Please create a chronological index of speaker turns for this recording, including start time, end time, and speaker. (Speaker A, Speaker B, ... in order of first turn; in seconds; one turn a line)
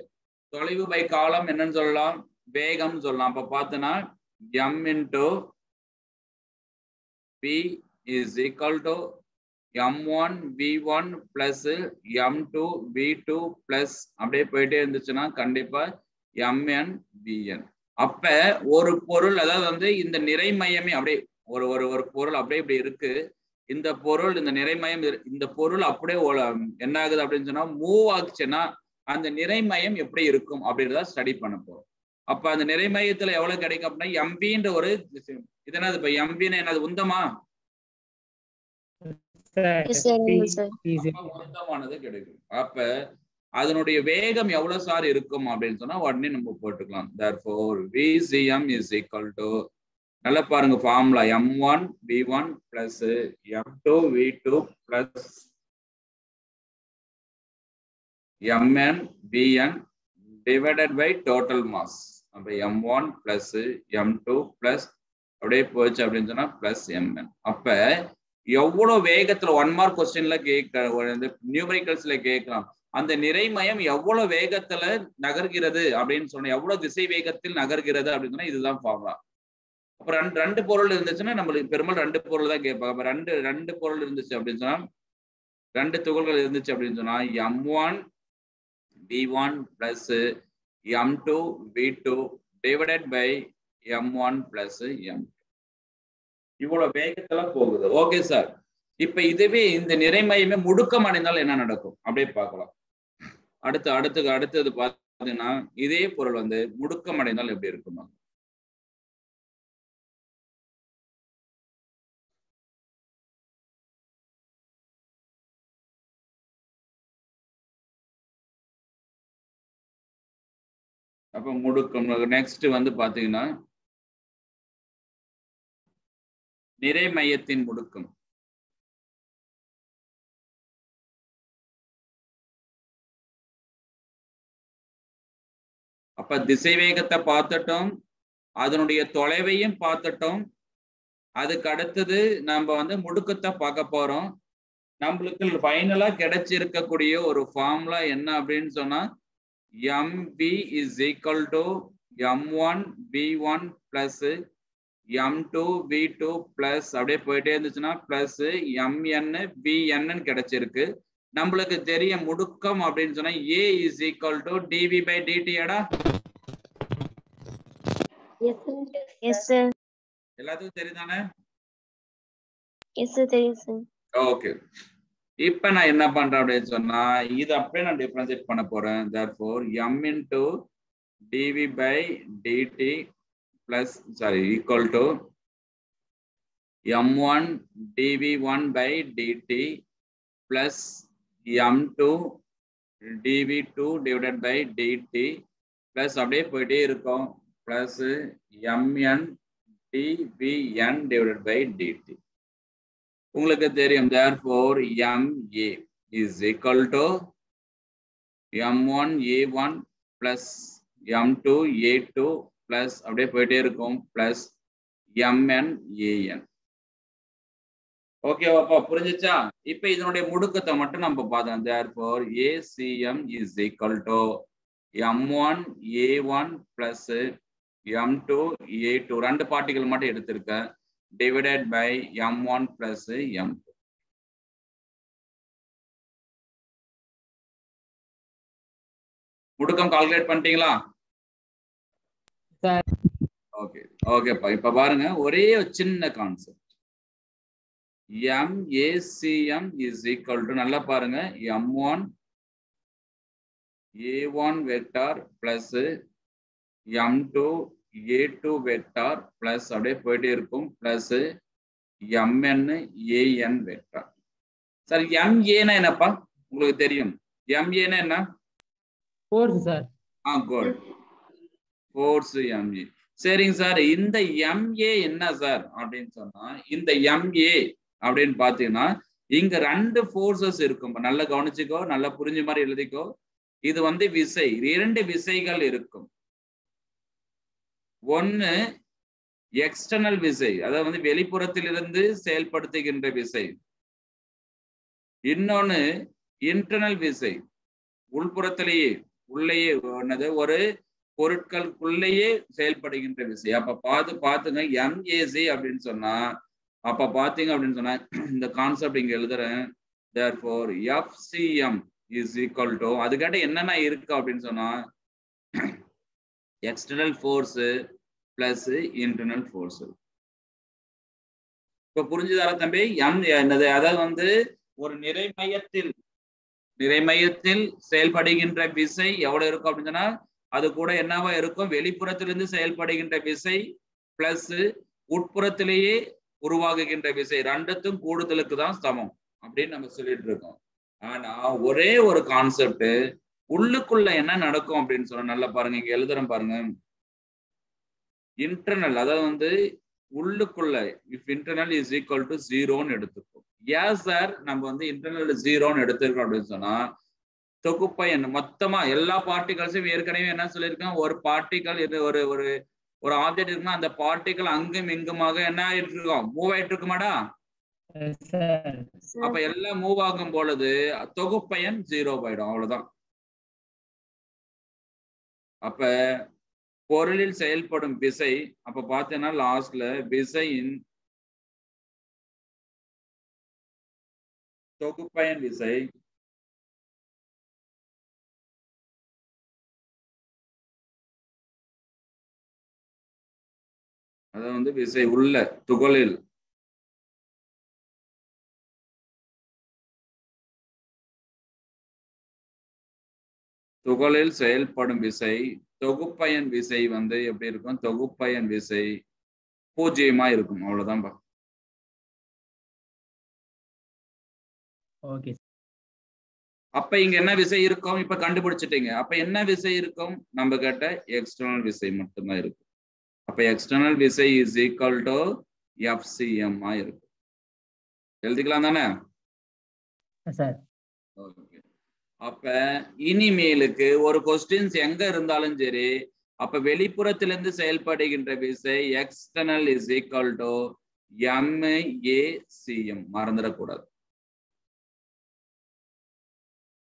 Speaker A: 0.5-4.0
Speaker A: 4.5-5.3
Speaker A: 7.4-9.0
Speaker A: 9.8-15.8
Speaker A: 16.4-23.1
Speaker A: 23.7-37.2
Speaker B: 39.0-41.4
Speaker C: 39.9-40.7
Speaker A: 41.0-42.9
Speaker A: 43.6-49.5
Speaker A: 50.2-55.4
Speaker A: 58.5-59.8
Speaker A: 60.4-67.8
Speaker A: 68.5-79.2
Speaker A: 80.0-84.8
Speaker A: 85.8-88.0
Speaker A: 89.1-90.2
Speaker A: 90.9-93.4
Speaker A: 93.9-95.3
Speaker A: 96.6-98.5
Speaker A: 99.0-102.7
Speaker A: 103.7-108.1
Speaker A: 121.3-123.5
Speaker A: 126.8-128.1
Speaker A: 136.2-137.9
Speaker A: 138.6-140.4
Speaker A: 141.4-144.3
Speaker A: 145.0-149.0
Speaker A: 149.9-151.7
Speaker A: 152.2-154.3
Speaker A: 155.2-165.8
Speaker C: 168.4-169.7
Speaker A: 170.4-171.2
Speaker C: 173.0-173.8
Speaker A: 174.2-174.5
Speaker A: 175.4-180.5
Speaker A: 181.3-183.0
Speaker A: 183.7-185.1
Speaker A: 186.9-189.7
Speaker A: 190.5-192.2
Speaker A: 193.2-195.3
Speaker A: 195.9-199.3
Speaker A: 199.9-202.2
Speaker A: 203.3-207.1
Speaker A: 208.6-214.5
Speaker A: 215.2-216.4
Speaker A: 218.3-224.3
Speaker A: 225.0-227.2
Speaker A: 227.9-230.6
Speaker A: 231.2-233.7
Speaker A: 239.6-240.7
Speaker B: 242.6-242.8
Speaker A: 243.6-246.6
Speaker A: 248.2-252.0
Speaker A: 254.0-255.9
Speaker A: 256.9-257.5
Speaker A: 258.1-261.2
Speaker A: 262.1-264.1
Speaker A: 264.9-268.2
Speaker B: 269.3-269.9
Speaker A: 270.3-270.8
Speaker A: 271.9-283.1
Speaker A: 283.7-286.1
Speaker A: 288.1-288.5
Speaker A: 289.6-293.5
Speaker A: 295.3-295.8
Speaker A: 296.5-297.4
Speaker A: 298.1-300.6
Speaker A: 301.2-306.2
Speaker A: 306.9-309.6
Speaker A: 310.1-314.7
Speaker A: 316.7-317.7
Speaker A: 318.4-319.9
Speaker A: 321.9-324.3
Speaker A: 324.8-325.9
Speaker A: 326.8-333.6
Speaker A: 334.2-340.6
Speaker A: 341.1-342.9
Speaker A: 343.5-346.6
Speaker A: 348.4-349.5
Speaker A: 350.2-356.8
Speaker A: 357.6-362.5
Speaker A: 363.0-367.1
Speaker B: 367.9-368.9
Speaker A: 369.2-372.9
Speaker A: 375.6-375.9
Speaker A: 376.9-380.8
Speaker A: 384.8-385.9
Speaker A: 394.3-396.2
Speaker A: 403.8-408.9
Speaker A: 409.8-411.1
Speaker B: 415.1-415.4
Speaker A: 416.8-422.6
Speaker A: 423.3-425.2
Speaker A: 425.9-427.0
Speaker A: 428.2-428.9
Speaker B: 430.3-430.6
Speaker A: 431.2-431.6
Speaker A: 432.2-440.6
Speaker A: 441.2-443.9